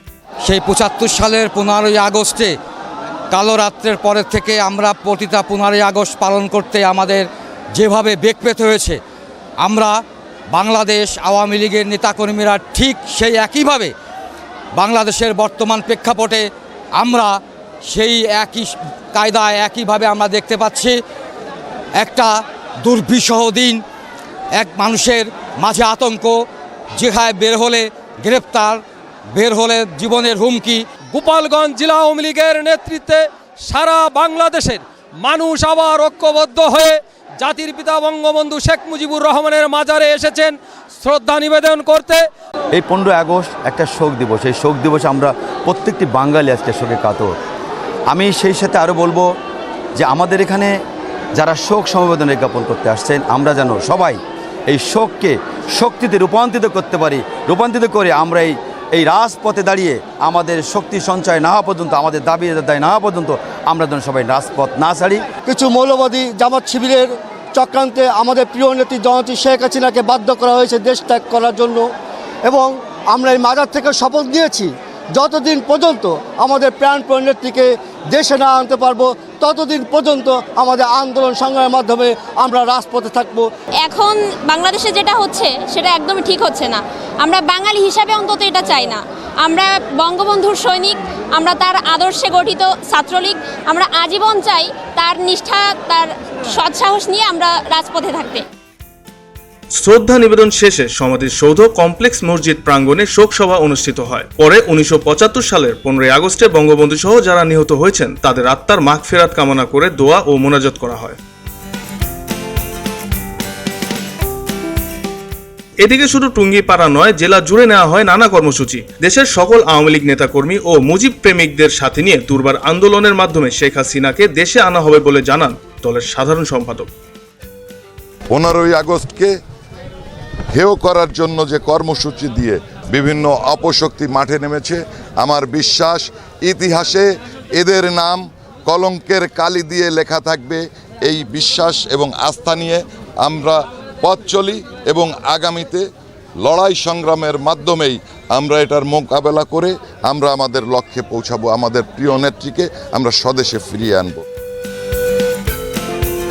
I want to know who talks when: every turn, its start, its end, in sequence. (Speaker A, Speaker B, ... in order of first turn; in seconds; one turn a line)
Speaker A: 0.4-2.5
Speaker A: 3.3-9.0
Speaker A: 9.6-13.9
Speaker A: 14.8-21.0
Speaker A: 22.0-23.8
Speaker A: 24.6-30.9
Speaker B: 31.1-42.2
Speaker C: 42.7-47.4
Speaker C: 48.1-49.3
Speaker C: 50.0-50.8
Speaker C: 51.4-65.3
Speaker D: 65.4-71.9
Speaker D: 72.5-83.5
Speaker E: 83.8-98.5
Speaker F: 99.7-111.2
Speaker F: 115.8-126.9
Speaker G: 128.3-129.3
Speaker G: 130.5-145.8
Speaker G: 146.4-154.2